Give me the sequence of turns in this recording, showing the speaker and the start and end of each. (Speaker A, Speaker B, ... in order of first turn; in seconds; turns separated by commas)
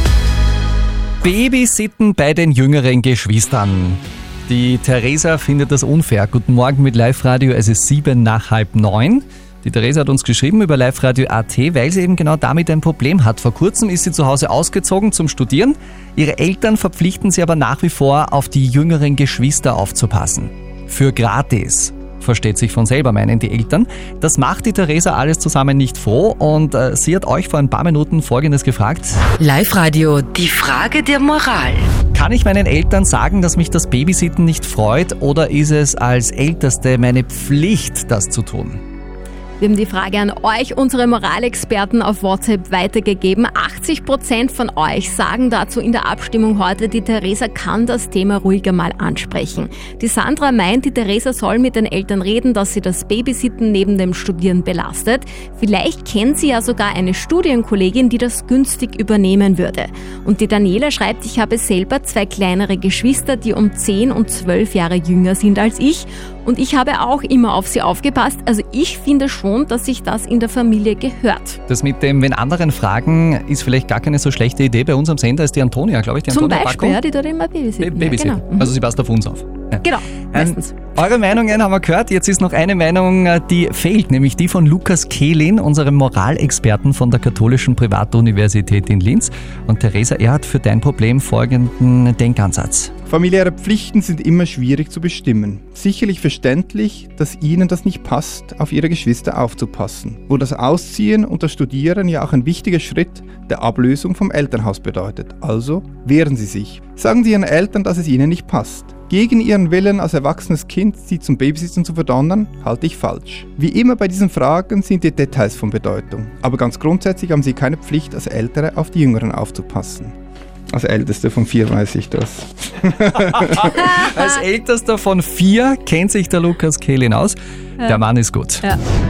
Speaker A: 1.2-29.2, Speaker B: 29.4-31.9, Speaker C: 30.4-31.7, Speaker A: 32.1-38.8, Speaker C: 39.6-71.6, Speaker A: 71.7-77.0, Speaker C: 76.3-78.6, Speaker A: 77.8-92.9, Speaker C: 79.8-80.7, Speaker D: 93.1-120.1, Speaker D: 120.7-123.8, Speaker A: 123.3-128.8